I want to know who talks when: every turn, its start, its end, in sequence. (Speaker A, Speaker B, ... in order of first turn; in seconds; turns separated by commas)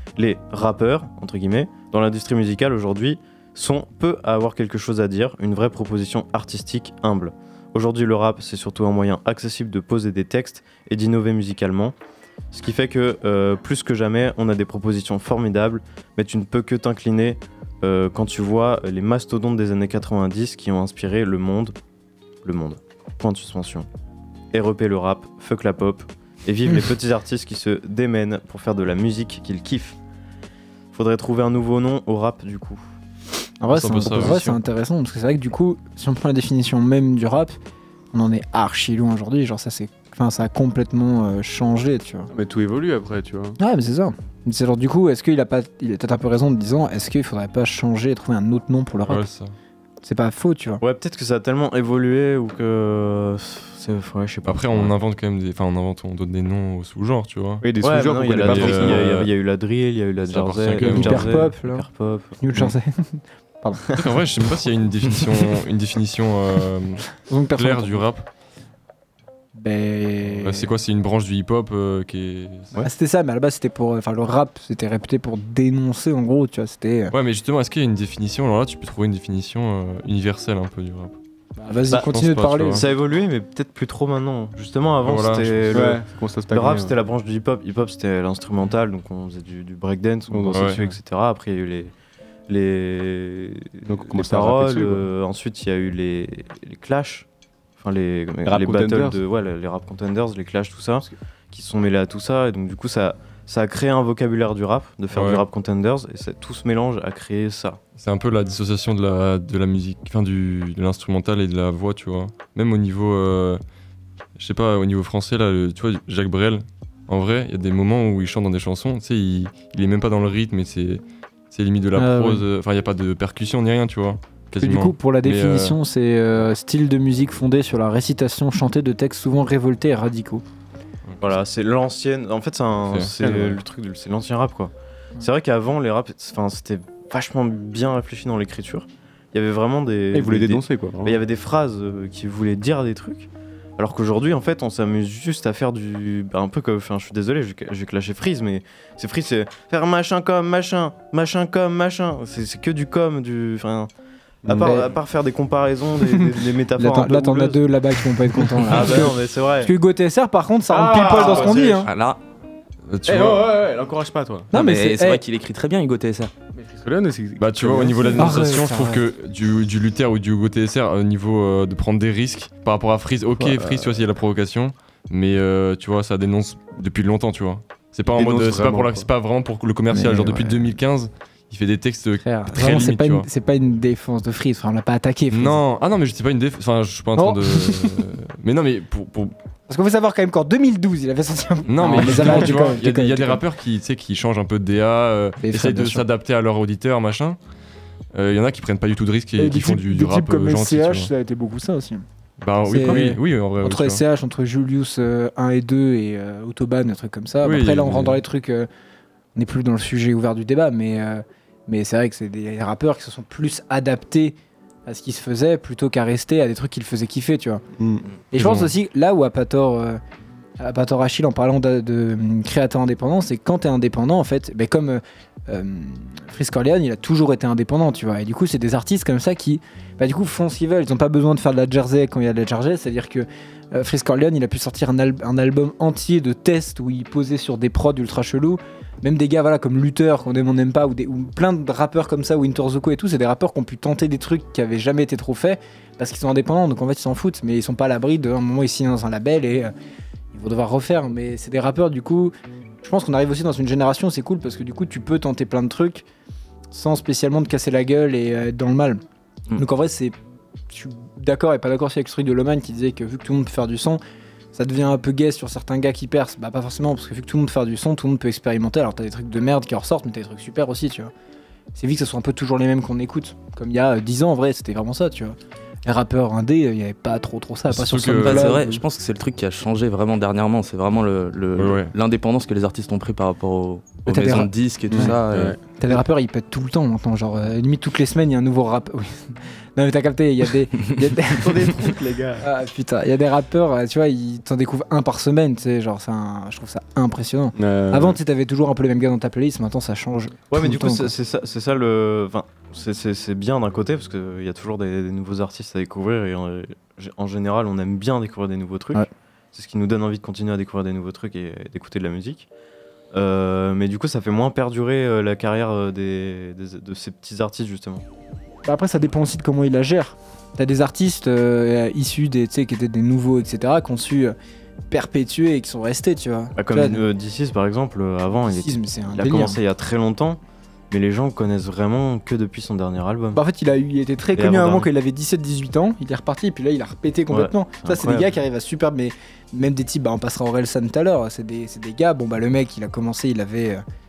Speaker A: 0.2-11.9, Speaker A: 12.5-21.7, Speaker A: 22.4-23.9, Speaker A: 24.5-30.0, Speaker A: 30.9-32.8, Speaker B: 33.6-37.5, Speaker C: 33.7-34.5, Speaker A: 34.0-34.5, Speaker B: 38.1-42.3, Speaker D: 42.3-43.6, Speaker B: 43.6-49.2, Speaker C: 49.0-49.5, Speaker B: 50.0-50.8, Speaker A: 50.8-54.9, Speaker C: 54.5-57.7, Speaker D: 57.6-59.3, Speaker A: 57.8-62.4, Speaker C: 58.4-59.3, Speaker C: 60.3-61.4, Speaker B: 60.8-63.9, Speaker C: 64.0-68.2, Speaker B: 67.3-68.0, Speaker B: 69.5-70.7, Speaker C: 70.2-72.7, Speaker B: 72.8-77.1, Speaker C: 77.1-81.2, Speaker B: 81.6-82.9, Speaker C: 81.9-82.8, Speaker A: 82.7-91.9, Speaker C: 85.0-85.9, Speaker D: 85.7-86.9, Speaker D: 90.3-90.7, Speaker C: 90.5-90.8, Speaker A: 92.5-97.2, Speaker D: 93.8-95.0, Speaker A: 97.8-107.8, Speaker D: 98.4-99.2, Speaker C: 105.1-105.4, Speaker C: 108.0-113.6, Speaker C: 114.4-125.8, Speaker B: 122.0-122.4, Speaker B: 124.6-130.4, Speaker A: 131.2-153.9, Speaker D: 133.2-133.6, Speaker D: 140.1-141.2, Speaker D: 154.4-154.8, Speaker A: 154.4-157.7, Speaker B: 154.5-154.9, Speaker B: 156.8-161.9, Speaker A: 158.6-159.7, Speaker D: 158.7-159.0, Speaker D: 160.7-161.8, Speaker A: 161.1-161.9, Speaker E: 161.8-162.2, Speaker C: 162.9-163.6, Speaker D: 163.1-164.5, Speaker B: 164.5-165.2, Speaker E: 164.5-166.3, Speaker D: 166.5-168.5, Speaker C: 167.4-183.3, Speaker B: 168.1-169.0, Speaker D: 173.4-173.9, Speaker D: 178.1-179.1, Speaker B: 179.9-180.7, Speaker B: 182.2-185.6, Speaker C: 185.3-189.3, Speaker B: 187.2-188.0, Speaker B: 189.7-193.4, Speaker C: 191.7-197.4, Speaker B: 195.4-196.0, Speaker C: 198.1-201.1, Speaker B: 199.4-202.0, Speaker C: 202.4-204.0, Speaker B: 202.7-208.7, Speaker C: 207.4-208.2, Speaker B: 209.3-217.6, Speaker D: 217.8-218.0, Speaker B: 218.3-220.0, Speaker C: 218.4-218.7, Speaker B: 220.6-249.7, Speaker B: 250.3-256.0, Speaker B: 256.7-259.0, Speaker B: 259.5-260.1, Speaker B: 260.7-264.0, Speaker B: 264.5-271.1, Speaker B: 271.7-278.8, Speaker C: 277.7-278.6, Speaker E: 278.2-285.6, Speaker C: 281.6-281.9, Speaker B: 284.1-285.1, Speaker D: 284.9-285.6, Speaker B: 285.8-301.1, Speaker D: 291.3-292.5, Speaker D: 297.6-298.2, Speaker A: 300.5-312.5, Speaker A: 313.1-318.0, Speaker B: 318.6-324.4, Speaker B: 324.9-327.0, Speaker A: 326.6-330.4, Speaker B: 328.5-329.6, Speaker A: 330.9-333.4, Speaker B: 333.3-343.8, Speaker A: 334.4-334.9, Speaker A: 337.3-338.3